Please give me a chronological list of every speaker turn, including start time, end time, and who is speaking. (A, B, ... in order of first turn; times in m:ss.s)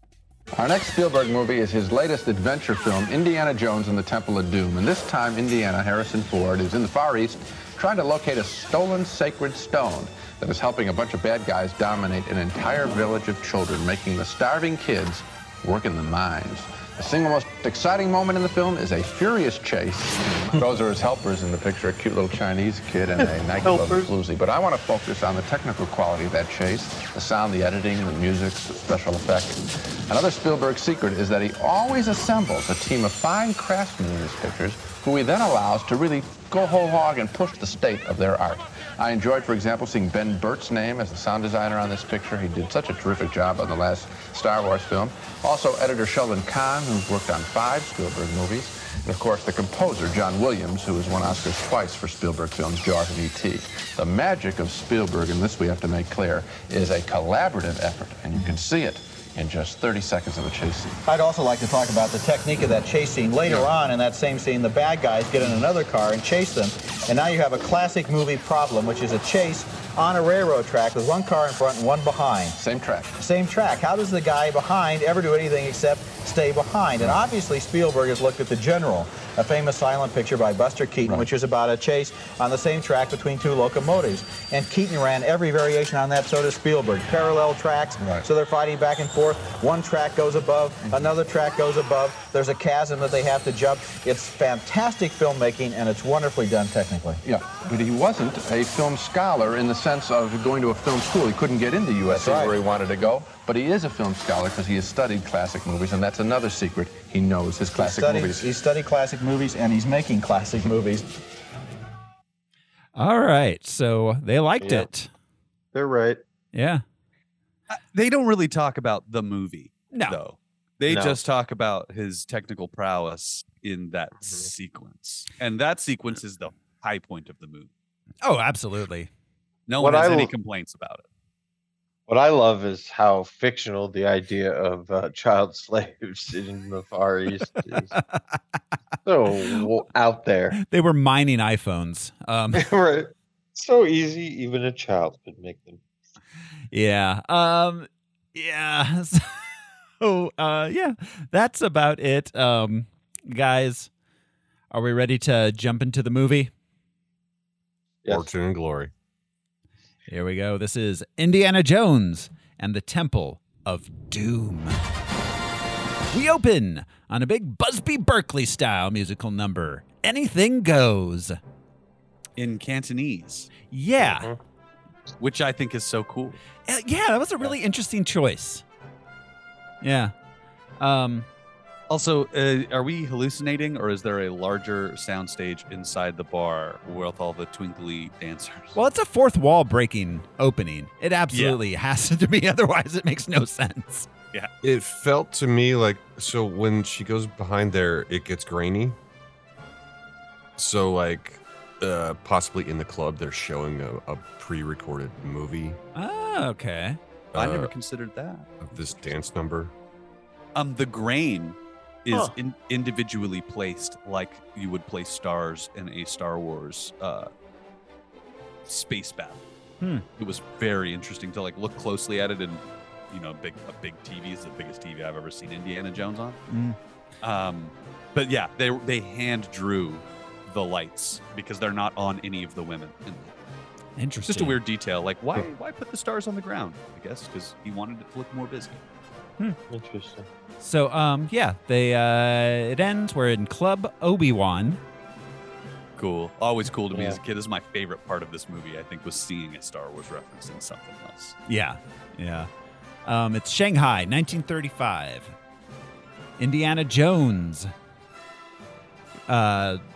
0:00.5-1:01.0 A
0:23.2-0:24.1 B
1:01.0-1:12.6 C
1:12.6-1:13.1 A
1:13.1-1:37.2 C
1:21.0-1:21.3 A
1:28.0-1:28.2 A
1:37.2-1:48.5 A
1:42.1-1:42.6 C
1:47.7-1:51.1 C
1:53.0-1:55.1 D
1:54.6-1:54.9 B
1:55.7-1:56.2 B
1:56.5-1:56.8 D
1:57.7-2:07.7 E
1:59.9-2:00.2 D
2:00.9-2:01.2 B
2:08.2-2:09.1 D
2:09.7-2:11.0 E
2:09.8-2:10.3 B
2:12.1-2:17.9 B
2:17.9-2:18.4 D
2:19.0-2:20.6 B
2:20.6-2:22.7 D
2:22.5-2:25.8 B
2:26.7-2:33.9 D
2:34.7-2:36.5 D
2:38.1-2:38.9 F
2:40.1-2:44.8 D
2:46.1-2:51.4 D
2:52.4-2:53.5 E
2:53.7-2:54.3 D
2:54.0-2:54.4 B
2:55.2-2:56.4 E
2:56.6-2:58.6 D
2:59.8-3:00.1 D
3:00.8-3:01.3 D
3:01.9-3:08.8 E
3:08.7-3:14.1 D
3:11.3-3:11.6 E
3:14.6-3:19.0 F
3:20.6-3:25.8 F
3:25.9-3:27.0 D
3:27.3-3:27.7 F
3:27.3-3:28.5 E
3:28.6-3:29.7 F
3:30.5-3:37.3 E
3:38.7-3:39.4 E
3:40.2-3:46.4 E
3:46.5-3:46.8 D
3:47.2-3:53.3 E
3:54.0-3:54.6 D
3:54.3-3:58.8 E
3:59.7-4:00.3 B
4:00.6-4:04.8 D
4:06.0-4:11.4 E
4:06.9-4:07.2 B
4:11.5-4:12.5 D
4:13.0-4:15.3 D
4:16.4-4:17.7 D
4:19.3-4:19.8 D